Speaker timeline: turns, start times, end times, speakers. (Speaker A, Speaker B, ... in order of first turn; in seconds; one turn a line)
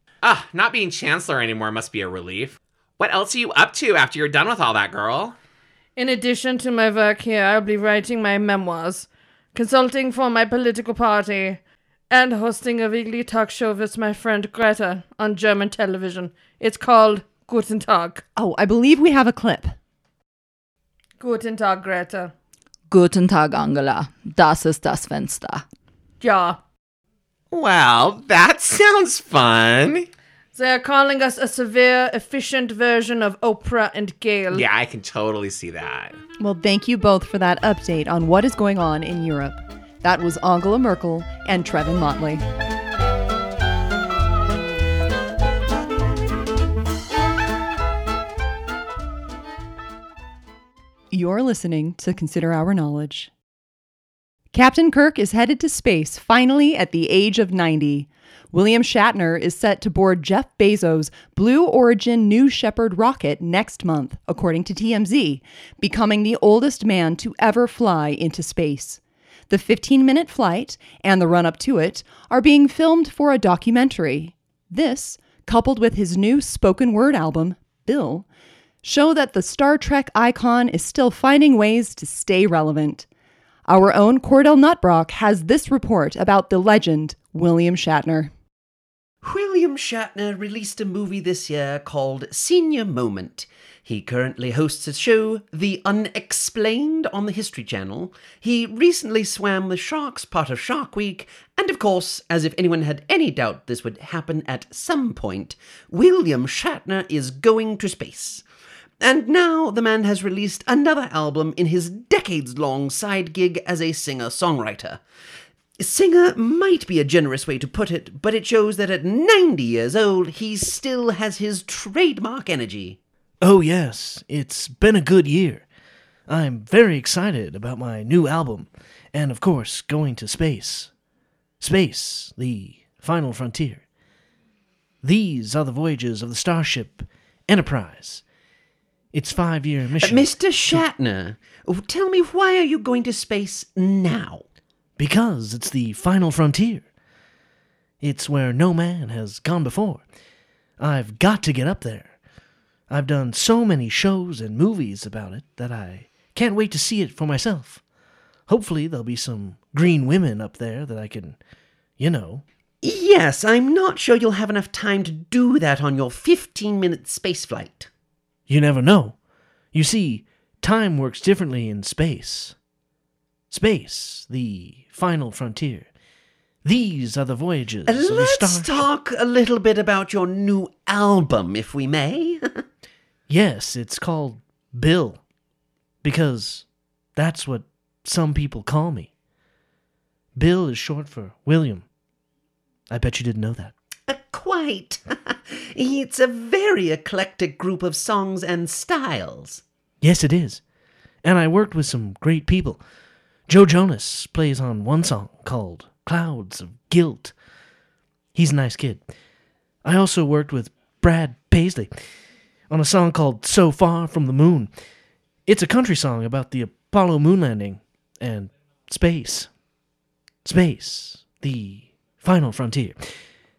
Speaker A: 0.2-5.4
Speaker B: 6.0-18.2
Speaker C: 18.4-19.8
Speaker B: 21.2-22.3
Speaker D: 22.9-25.6
Speaker B: 26.2-26.6
Speaker A: 27.5-30.1
Speaker B: 30.6-34.6
Speaker A: 34.5-36.2
Speaker C: 36.4-42.4
Speaker C: 51.1-53.3
Speaker C: 54.5-78.3
Speaker C: 78.8-83.1
Speaker C: 83.7-88.3
Speaker E: 89.2-108.4
Speaker E: 109.0-115.0
Speaker E: 115.8-123.0
Speaker F: 123.4-125.7
Speaker F: 126.3-130.9
Speaker F: 131.6-133.8
Speaker F: 135.0-138.2
Speaker F: 139.1-140.8
Speaker E: 140.0-144.4
Speaker F: 145.0-146.8
Speaker F: 148.0-150.0
Speaker F: 150.8-152.2
Speaker F: 152.9-157.8
Speaker F: 158.5-161.4
Speaker F: 162.0-162.4
Speaker E: 162.8-167.9
Speaker F: 168.5-169.2
Speaker F: 169.7-172.6
Speaker F: 173.5-175.9
Speaker F: 176.7-178.8
Speaker E: 177.9-182.6
Speaker F: 183.3-185.2
Speaker F: 186.0-189.1
Speaker F: 190.4-191.8
Speaker F: 192.9-193.8
Speaker E: 194.1-199.6
Speaker F: 200.0-200.6
Speaker F: 201.2-202.8
Speaker F: 203.5-207.3
Speaker F: 208.3-209.1
Speaker F: 209.8-211.9
Speaker F: 212.7-214.7
Speaker F: 215.5-219.5
Speaker F: 220.4-223.0